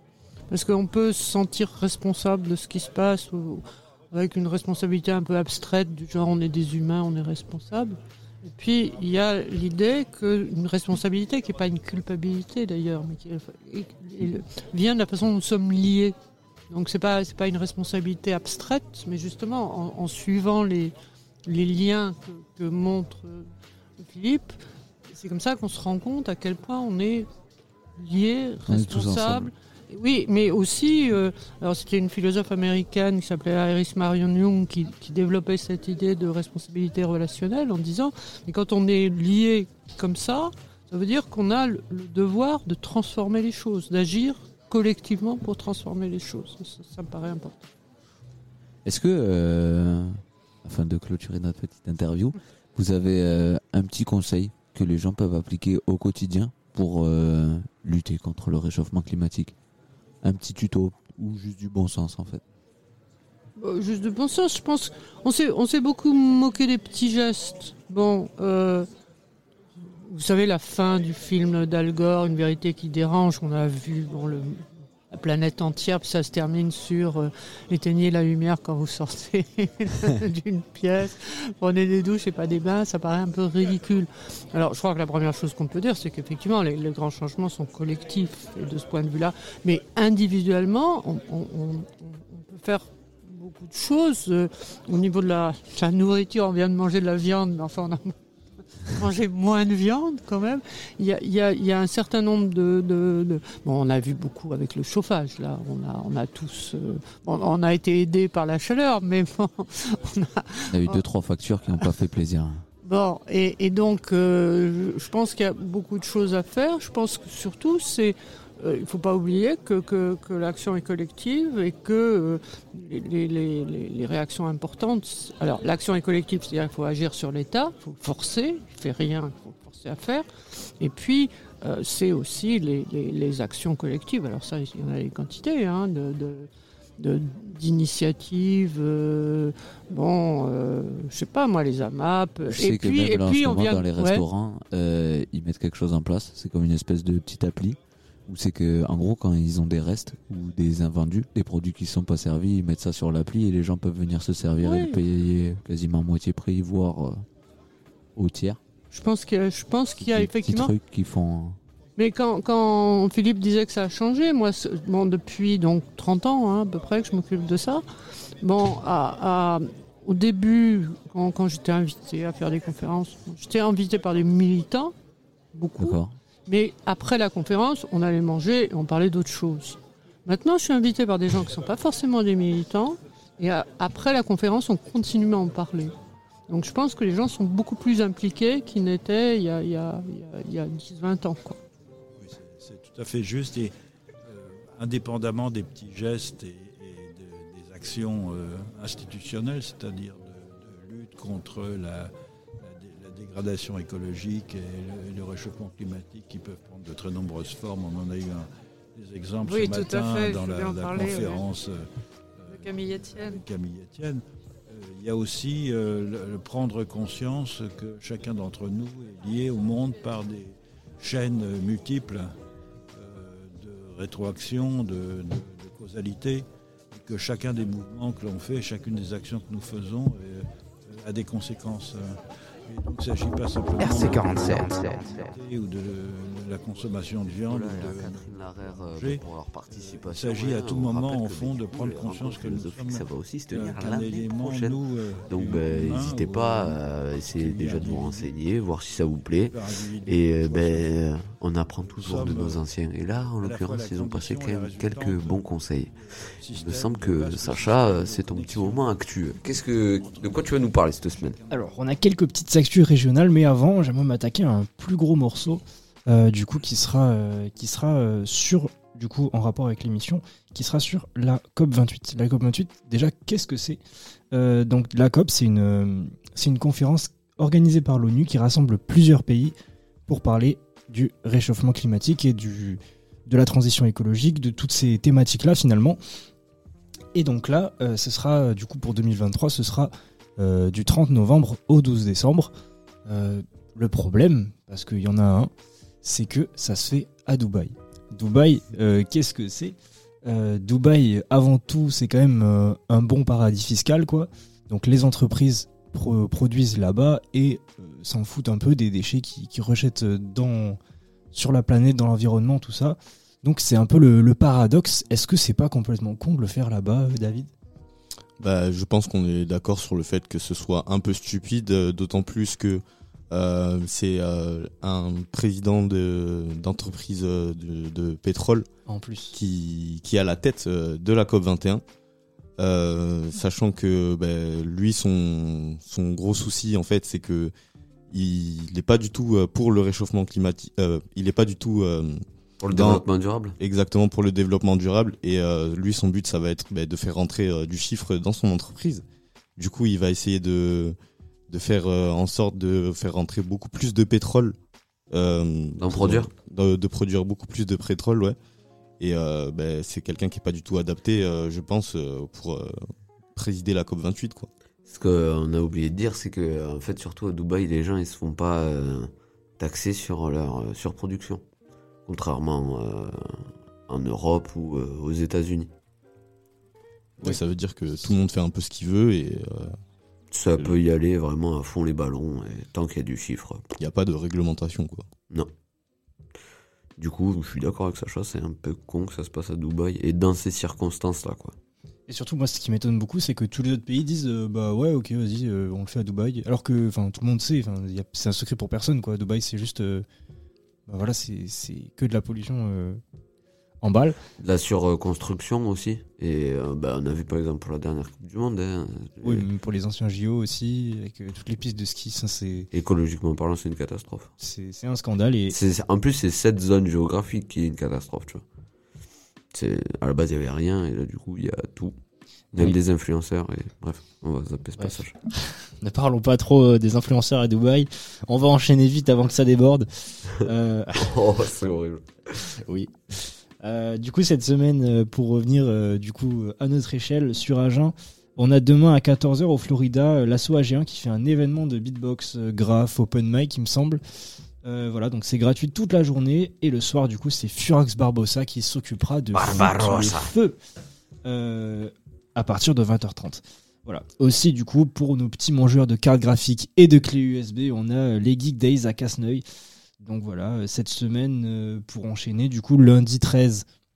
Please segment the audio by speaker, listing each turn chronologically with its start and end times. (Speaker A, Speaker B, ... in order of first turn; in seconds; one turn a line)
Speaker A: 0.5-16.1
Speaker A: 16.7-20.9
Speaker A: 21.4-24.6
Speaker A: 25.1-27.3
Speaker A: 28.0-47.7
Speaker B: 28.6-29.5
Speaker B: 48.8-59.5
Speaker B: 60.2-62.4
Speaker A: 63.6-68.9
Speaker A: 70.0-98.1
Speaker A: 98.9-111.0
Speaker B: 110.7-112.7
Speaker A: 112.8-130.2
Speaker A: 130.8-144.2
Speaker B: 142.5-157.2
Speaker A: 154.6-155.0
Speaker B: 158.2-158.6
Speaker A: 158.9-160.7
Speaker B: 159.9-161.6
Speaker A: 162.0-167.8
Speaker A: 168.4-174.9
Speaker A: 175.5-185.9
Speaker B: 175.8-176.2
Speaker A: 186.5-191.6
Speaker C: 192.2-222.3
Speaker A: 209.4-211.4
Speaker A: 212.5-213.4
Speaker C: 222.9-248.4
Speaker D: 237.3-244.8
Speaker D: 245.3-255.9
Speaker C: 249.5-251.0
Speaker C: 251.8-261.9
Speaker D: 256.5-261.4
Speaker E: 261.5-273.8
Speaker E: 274.3-279.5
Speaker E: 280.1-286.0
Speaker E: 287.1-292.5
Speaker E: 293.1-295.5
Speaker E: 296.0-310.8
Speaker E: 311.3-317.5
Speaker F: 318.4-328.6
Speaker E: 328.9-329.3
Speaker F: 329.3-331.8
Speaker F: 332.6-337.5
Speaker F: 338.1-343.0
Speaker D: 342.6-343.6
Speaker F: 343.6-349.0
Speaker F: 349.6-350.9
Speaker F: 351.5-354.6
Speaker F: 355.1-358.4
Speaker D: 355.8-356.3
Speaker F: 359.0-362.7
Speaker F: 363.4-364.5
Speaker D: 364.8-371.4
Speaker D: 372.1-375.7
Speaker F: 377.2-379.8
Speaker D: 380.3-383.6
Speaker F: 383.8-385.0
Speaker D: 387.0-391.5
Speaker E: 392.1-400.1
Speaker E: 400.9-403.0
Speaker E: 403.8-404.2
Speaker D: 404.4-409.5
Speaker E: 409.2-412.7
Speaker D: 412.7-414.3
Speaker E: 414.4-415.6
Speaker D: 415.5-418.4
Speaker D: 419.5-421.9
Speaker D: 422.5-425.1
Speaker E: 424.8-425.0
Speaker E: 425.8-429.9
Speaker E: 430.4-431.1
Speaker D: 431.0-432.3
Speaker E: 432.6-444.0
Speaker E: 444.6-450.6
Speaker D: 449.3-450.3
Speaker E: 451.2-459.4
Speaker E: 460.0-463.6